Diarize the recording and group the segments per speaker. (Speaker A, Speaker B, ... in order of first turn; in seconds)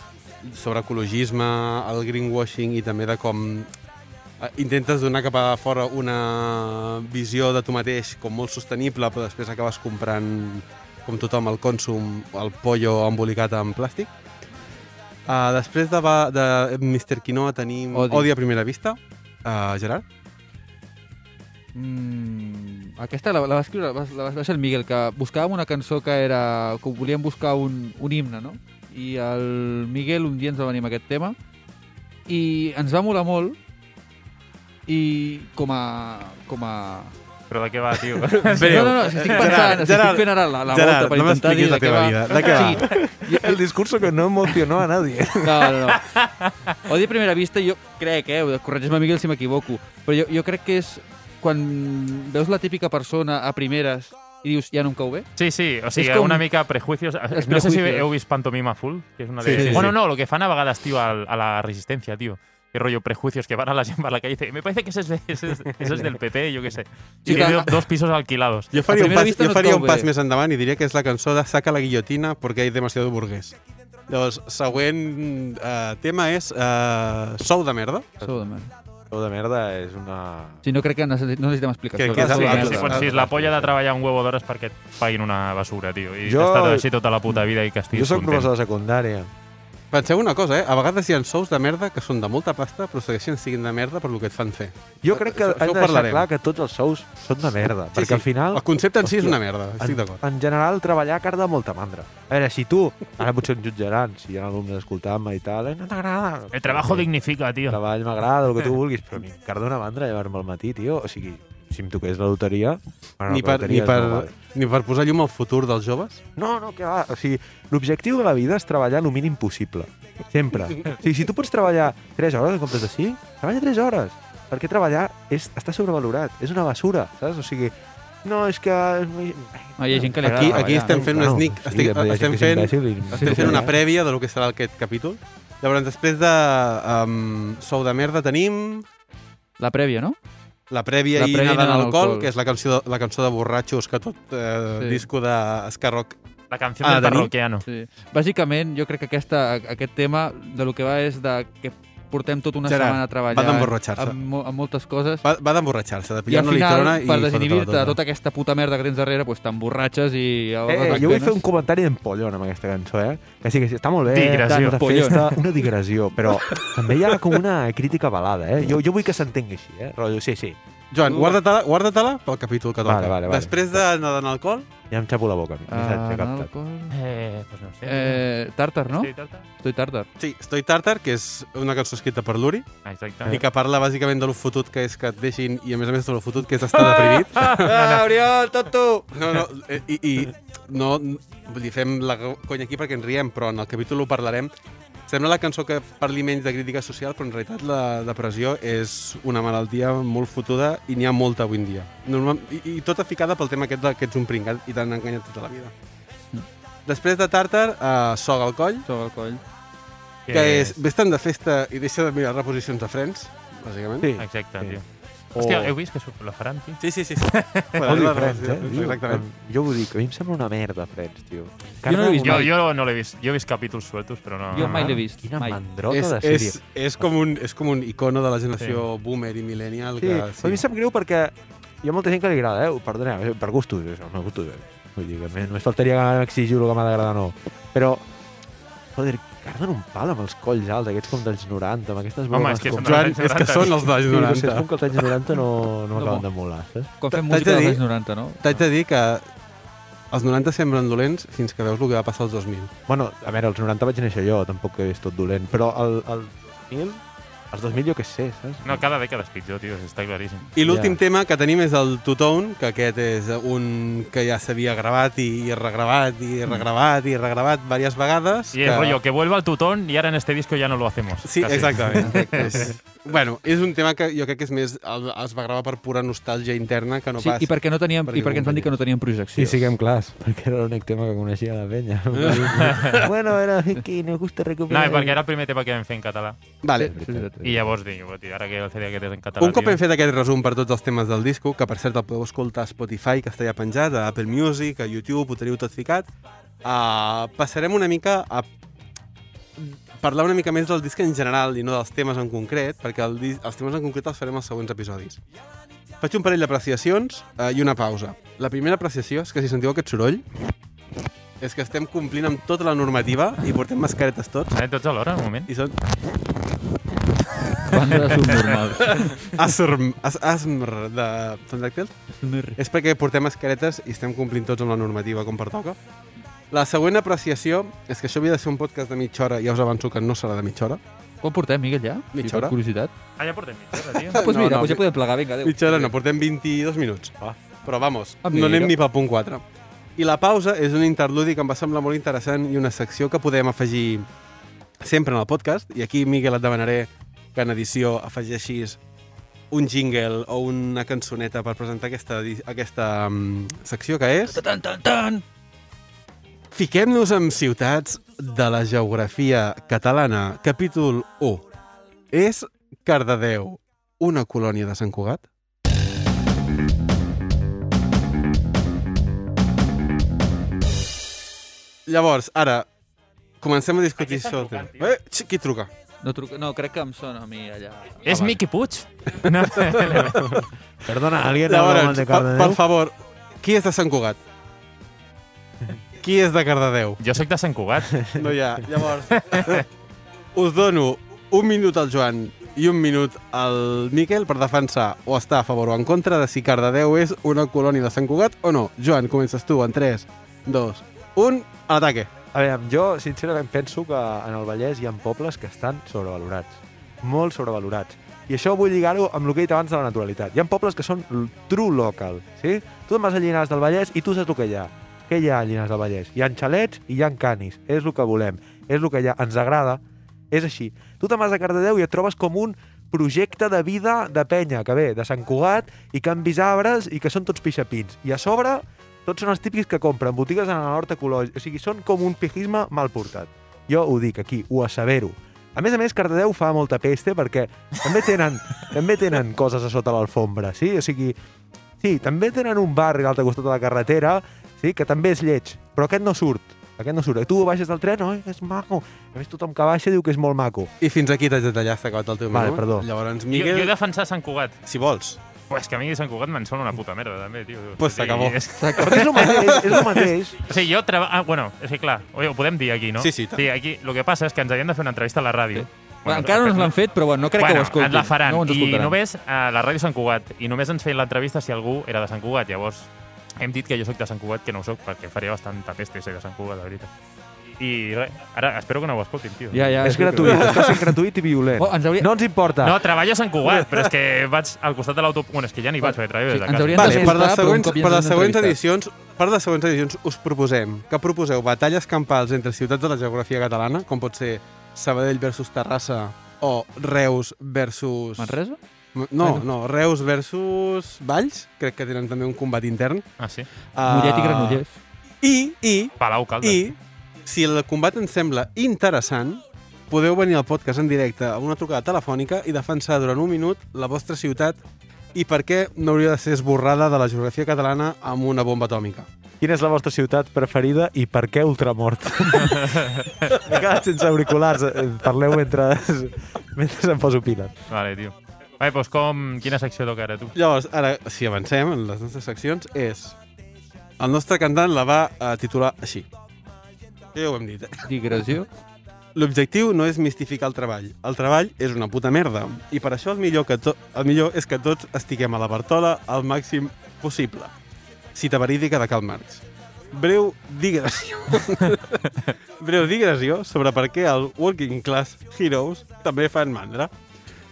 Speaker A: 0.4-3.7, 4.4-14.1, 15.3-20.1, 38.5-42.9, 59.4-59.9, 68.7-73.6, 74.1-78.1, 82.0-83.1, 89.9-96.3, 97.9-100.2, 113.3-116.2, 130.2-138.9, 140.7-146.2, 146.8-147.3, 152.7-154.2, 155.2-158.0, 170.9-174.7, 180.2-182.7, 183.2-187.7, 189.1-194.5, 195.1-205.7, 206.9-208.9, 210.3-214.1, 216.8-219.2, 225.9-230.6, 242.8-244.7, 247.1-247.8, 248.4-249.2, 250.1-252.7, 260.6-269.0, 271.2-277.5, 278.1-278.7, 282.1-283.1, 286.6-286.9, 289.4-296.1, 296.6-298.5, 299.6-305.2, 306.0-310.3, 311.4-314.5, 315.5-315.8, 318.9-321.9, 322.6-325.8, 326.5-330.8, 332.1-332.6, 333.7-334.8, 335.4-339.4, 340.0-344.1, 344.8-348.8, 349.5-354.4, 356.5-361.5, 362.1-365.2, 371.9-372.7, 373.4-375.7, 379.2-380.3, 381.5-384.2, 386.0-387.0, 388.2-389.7, 390.4-402.1, 450.8-453.7, 454.7-455.2, 457.8-458.4, 459.2-460.1, 463.0-463.4, 480.3-480.8, 486.8-498.4, 498.9-503.1, 503.7-504.6, 505.2-514.6, 515.1-519.1, 530.4-533.2, 534.0-536.1, 537.1-537.9, 539.1-547.5, 548.1-556.9
Speaker B: 17.9-18.3, 21.7-31.4, 32.3-33.6, 34.9-37.1, 38.3-43.6, 45.4-46.1, 46.9-55.3, 55.9-56.5, 57.3-58.1, 59.5-59.9, 67.2-67.8, 68.9-70.1, 78.2-78.7, 80.6-83.0, 129.8-131.3, 133.1-133.7, 139.6-140.2, 141.1-142.3, 144.8-145.1, 147.6-155.2, 156.3-161.4, 164.5-165.5, 171.0-171.4, 175.7-177.0, 177.8-180.1, 186.8-189.1, 208.8-209.4, 221.8-222.5, 224.5-225.6, 245.9-246.2, 247.0-248.4, 277.2-279.7, 286.8-287.4, 317.6-319.2, 322.2-322.6, 331.2-332.9, 334.1-335.9, 338.2-338.8, 354.3-355.2, 376.0-378.4, 458.6-459.2, 465.5-469.0, 479.5-480.8, 481.6-482.1, 485.8-488.6, 498.2-498.6, 503.9-504.8, 537.9-538.5
Speaker C: 37.5-39.8, 46.0-46.8, 55.4-68.8, 82.1-88.5, 106.5-107.8, 146.5-147.6, 164.1-164.8, 176.9-178.2, 178.9-179.5, 182.8-183.4, 186.9-188.1, 210.3-210.8, 214.2-214.8, 215.3-218.0, 222.2-225.0, 242.3-243.9, 258.6-260.5, 268.5-272.7, 282.5-283.1, 284.7-286.4, 287.4-289.8, 314.5-315.5, 318.1-318.4, 333.2-334.2, 374.1-374.7, 378.1-380.4, 387.0-388.1, 389.2-389.6, 453.3-454.6, 455.5-459.5, 460.5-466.7, 467.3-476.9, 477.6-479.8, 482.6-487.1, 503.2-503.5, 506.0-506.6, 522.4-523.2, 527.7-530.4
Speaker D: 42.4-45.9, 79.1-80.6, 82.0-83.8, 86.2-89.3, 95.0-107.1, 107.7-114.4, 116.4-127.7, 128.2-133.8, 160.7-170.6, 172.8-173.8, 174.9-176.5, 214.0-214.8, 215.3-215.7, 217.8-222.5, 224.5-226.6, 230.0-238.1, 238.9-243.1, 244.0-246.9, 252.9-258.9, 260.6-261.0, 279.4-285.2, 286.8-287.7, 380.8-382.6, 402.3-441.1, 441.8-450.7, 452.3-452.9, 458.8-460.4, 479.8-482.8, 486.8-487.2, 519.4-527.5